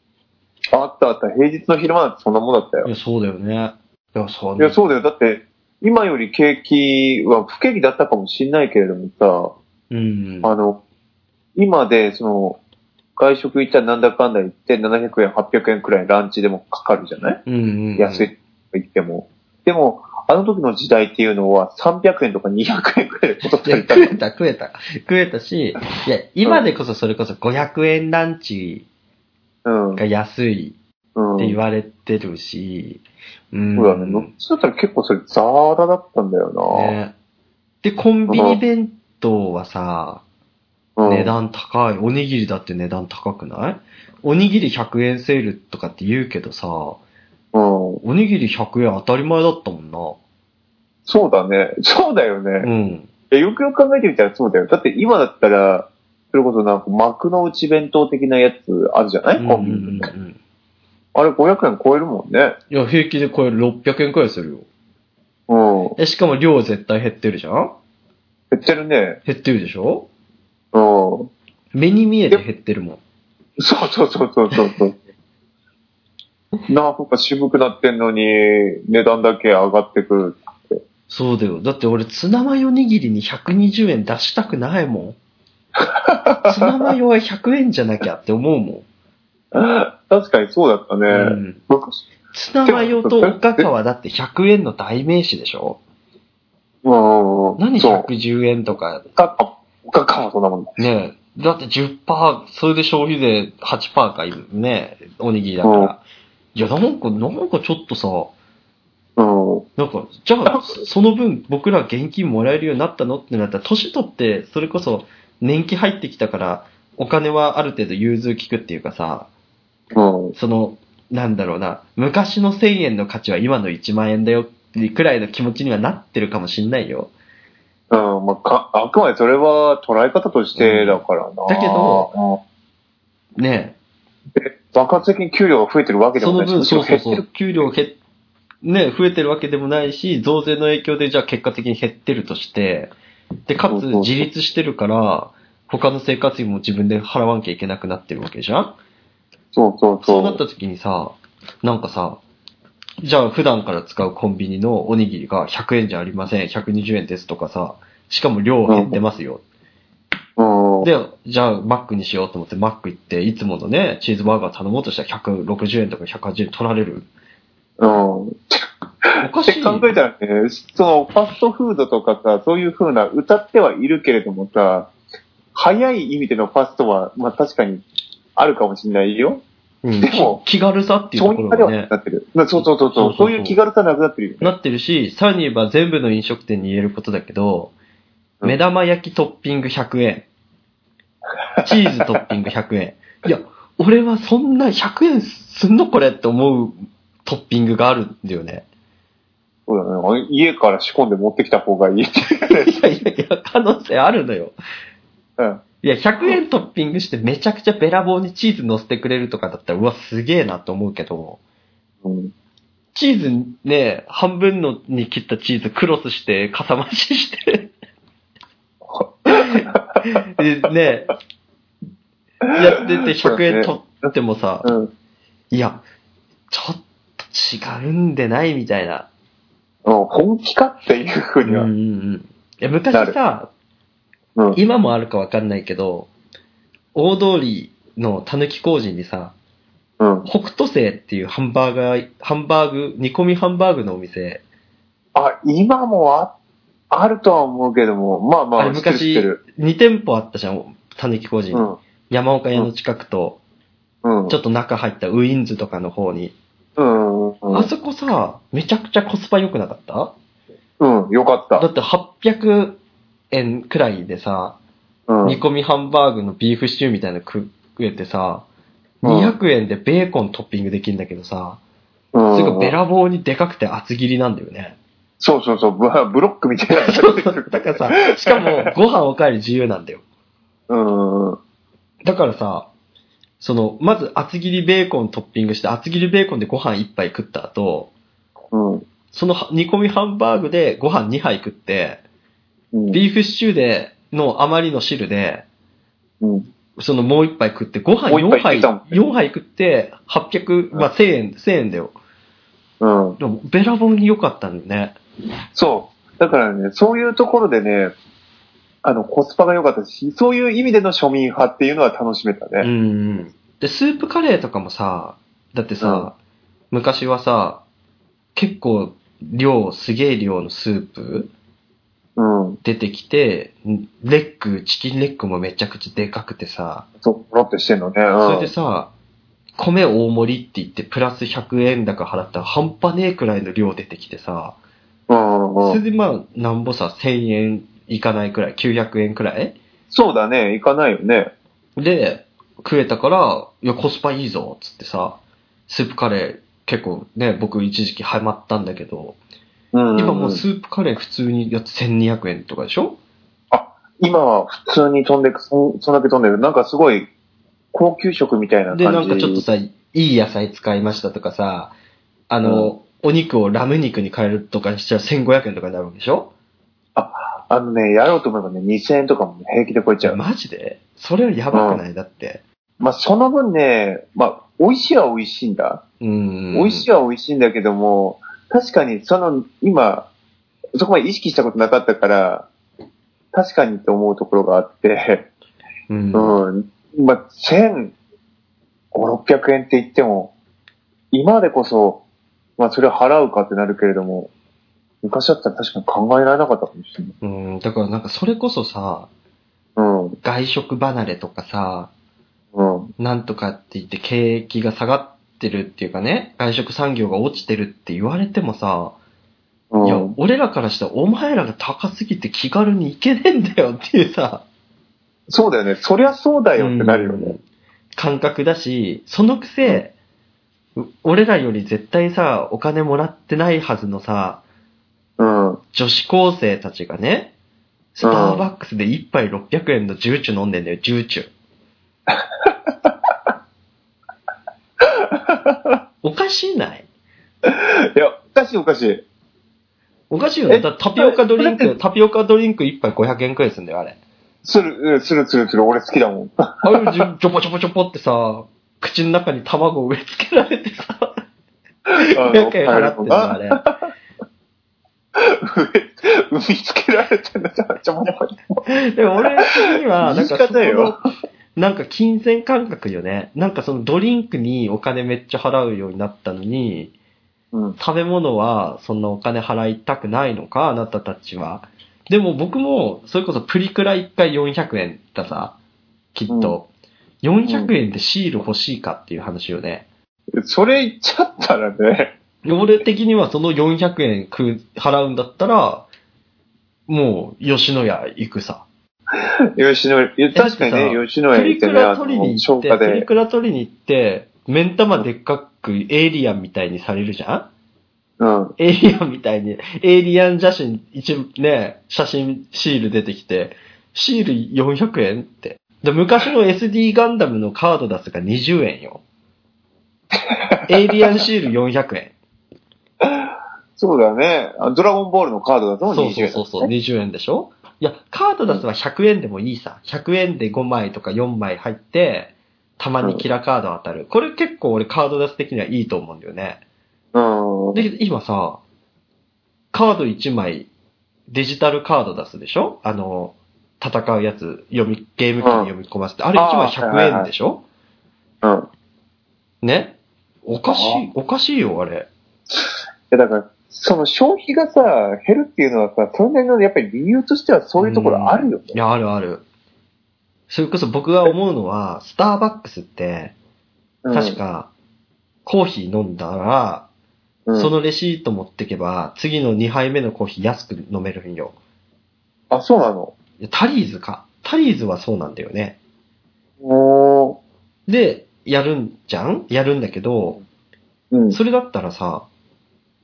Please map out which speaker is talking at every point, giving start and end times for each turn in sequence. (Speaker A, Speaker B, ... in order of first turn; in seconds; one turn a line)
Speaker A: 0.7-2.9
Speaker B: 2.8-4.8
Speaker A: 4.6-9.5
Speaker B: 9.9-10.5
Speaker A: 10.4-10.8
Speaker A: 11.6-12.6
Speaker A: 13.2-17.4
Speaker B: 17.4-18.3
Speaker A: 18.0-24.2
Speaker B: 23.6-28.9
Speaker A: 29.6-30.0
Speaker B: 29.9-30.8
Speaker A: 31.1-31.6
Speaker B: 31.4-34.3
Speaker A: 33.8-36.9
Speaker B: 36.7-37.1
Speaker B: 37.8-40.2
Speaker A: 38.3-38.6
Speaker A: 41.0-41.3
Speaker B: 41.0-47.0
Speaker A: 47.5-48.0
Speaker B: 48.0-50.2
Speaker A: 51.0-52.7
Speaker B: 52.6-53.1
Speaker A: 53.3-60.1
Speaker B: 59.4-60.4
Speaker A: 61.1-62.5
Speaker B: 62.7-64.7
Speaker A: 65.5-66.0
Speaker B: 66.0-67.8
Speaker A: 68.5-69.2
Speaker B: 69.2-70.1
Speaker A: 70.7-71.3
Speaker B: 71.7-73.0
Speaker A: 73.6-75.0
Speaker A: 76.7-80.8
Speaker B: 81.1-85.2
Speaker A: 85.8-86.7
Speaker B: 86.4-88.8
Speaker A: 89.5-92.0
Speaker B: 91.1-91.6
Speaker B: 92.3-95.8
Speaker A: 92.7-93.7
Speaker A: 96.8-98.1
Speaker B: 97.6-99.0
Speaker A: 99.2-100.8
Speaker B: 100.8-106.0
Speaker A: 105.6-105.9
Speaker B: 106.5-108.3
Speaker A: 109.2-109.7
Speaker B: 109.8-119.3
Speaker A: 119.9-120.3
Speaker B: 120.3-127.1
Speaker A: 127.9-132.4
Speaker B: 130.6-132.1
Speaker B: 133.4-133.8
Speaker A: 134.3-137.2
Speaker B: 136.2-138.0
Speaker B: 138.6-142.9
Speaker B: 143.5-148.8
Speaker A: 143.7-144.3
Speaker A: 149.5-150.4
Speaker B: 150.0-152.2
Speaker B: 153.0-159.4
Speaker A: 158.7-159.0
Speaker A: 160.4-160.9
Speaker B: 160.8-167.1
Speaker A: 167.8-174.9
Speaker B: 169.2-169.9
Speaker A: 175.5-177.8
Speaker A: 178.3-179.4
Speaker B: 179.8-181.9
Speaker A: 180.0-180.4
Speaker A: 181.2-184.5
Speaker B: 182.6-183.6
Speaker B: 184.4-187.7
Speaker B: 188.4-190.3
Speaker B: 191.6-198.6
Speaker A: 199.7-202.8
Speaker B: 202.5-204.5
Speaker B: 205.8-211.4
Speaker A: 212.0-212.3
Speaker B: 212.9-217.7
Speaker A: 218.9-220.0
Speaker B: 219.3-221.1
Speaker B: 222.5-224.7
Speaker A: 223.2-223.7
Speaker A: 224.6-224.9
Speaker B: 225.5-225.8
Speaker B: 226.5-229.1
Speaker A: 229.8-231.7
Speaker B: 231.4-233.5
Speaker B: 234.5-236.1
Speaker B: 236.9-239.3
Speaker A: 240.0-240.3
Speaker B: 240.2-244.4
Speaker A: 245.1-246.3
Speaker A: 246.9-249.4
Speaker B: 248.6-253.4
Speaker A: 251.5-251.8
Speaker A: 254.0-254.3
Speaker B: 254.3-256.3
Speaker A: 256.8-257.7
Speaker B: 257.5-260.1
Speaker A: 260.8-261.6
Speaker B: 261.6-262.8
Speaker B: 263.3-264.6
Speaker A: 265.1-265.4
Speaker B: 265.2-268.4
Speaker B: 269.0-271.6
Speaker A: 269.0-269.3
Speaker A: 272.1-272.7
Speaker B: 272.3-274.8
Speaker A: 275.2-278.7
Speaker B: 276.7-280.0
Speaker A: 280.7-281.4
Speaker B: 282.0-282.7
Speaker B: 283.4-287.9
Speaker A: 288.5-288.8
Speaker B: 289.1-292.0
Speaker A: 292.7-293.0
Speaker B: 292.9-295.4
Speaker A: 296.2-296.5
Speaker B: 296.8-301.9
Speaker A: 298.1-299.0
Speaker A: 302.8-303.2
Speaker B: 303.2-305.0
Speaker A: 305.5-307.9
Speaker A: 308.8-312.7
Speaker B: 312.6-316.1
Speaker A: 315.8-316.1
Speaker B: 316.7-317.6
Speaker B: 318.3-321.3
Speaker A: 322.2-322.6
Speaker B: 322.6-326.9
Speaker A: 327.0-328.5
Speaker B: 328.2-328.9
Speaker B: 329.6-334.6
Speaker A: 335.1-335.8
Speaker B: 335.6-339.6
Speaker A: 339.9-341.3
Speaker B: 341.8-349.2
Speaker A: 349.7-350.4
Speaker B: 349.9-353.0
Speaker A: 353.5-357.1
Speaker A: 357.7-359.4
Speaker B: 358.7-361.7
Speaker B: 362.3-366.3
Speaker A: 362.4-362.7
Speaker A: 366.9-370.2
Speaker B: 370.0-372.4
Speaker A: 371.5-371.8
Speaker A: 372.8-375.8
Speaker B: 376.0-376.9
Speaker A: 376.5-380.1
Speaker A: 380.8-382.5
Speaker A: 383.3-385.3
Speaker B: 385.9-386.4
Speaker A: 386.1-387.9
Speaker A: 388.9-390.3
Speaker A: 391.1-392.0
Speaker A: 392.6-394.3
Speaker A: 395.0-397.1
Speaker B: 397.2-399.1
Speaker A: 399.8-400.2
Speaker B: 400.2-401.9
Speaker A: 402.5-402.9
Speaker B: 403.0-408.9
Speaker A: 409.7-410.1
Speaker B: 409.8-414.4
Speaker A: 415.3-417.3
Speaker B: 416.6-417.4
Speaker B: 417.9-419.9
Speaker B: 420.8-424.4
Speaker A: 425.2-425.6
Speaker B: 425.7-427.3
Speaker B: 427.9-431.3
Speaker A: 428.0-428.4
Speaker A: 432.1-433.1
Speaker A: 434.8-435.8
Speaker B: 436.0-436.8
Speaker A: 437.4-439.0
Speaker B: 440.1-444.0
Speaker A: 440.5-441.7
Speaker A: 444.4-447.0
Speaker B: 446.6-451.2
Speaker A: 451.9-453.8
Speaker B: 452.0-453.6
Speaker A: 455.1-458.6
Speaker B: 458.6-461.0
Speaker A: 460.0-460.9
Speaker B: 461.6-466.9
Speaker B: 467.8-475.6
Speaker B: 476.1-476.7
Speaker A: 476.3-476.6
Speaker B: 477.2-479.9
Speaker A: 480.4-482.1
Speaker B: 482.4-485.9
Speaker B: 486.9-488.7
Speaker A: 489.6-493.1
Speaker B: 490.3-497.5
Speaker A: 498.2-498.5
Speaker B: 498.6-509.0
Speaker A: 510.2-510.7
Speaker B: 510.7-512.1
Speaker A: 513.0-516.7
Speaker B: 515.9-526.6
Speaker A: 527.1-527.9
Speaker B: 527.7-528.6
Speaker B: 529.7-530.7
Speaker B: 531.3-537.6
Speaker A: 535.4-535.7
Speaker A: 536.4-537.3
Speaker A: 538.4-538.7
Speaker B: 539.6-542.1
Speaker A: 540.7-541.0
Speaker A: 542.5-548.8
Speaker B: 547.8-549.4
Speaker B: 550.5-553.3
Speaker A: 554.0-554.4
Speaker B: 554.1-554.7
Speaker B: 555.4-556.9
Speaker A: 557.5-557.7
Speaker B: 557.5-561.5
Speaker A: 562.5-563.1
Speaker B: 563.4-565.8
Speaker A: 566.6-567.4
Speaker B: 567.9-570.4
Speaker A: 571.1-571.4
Speaker B: 571.3-572.3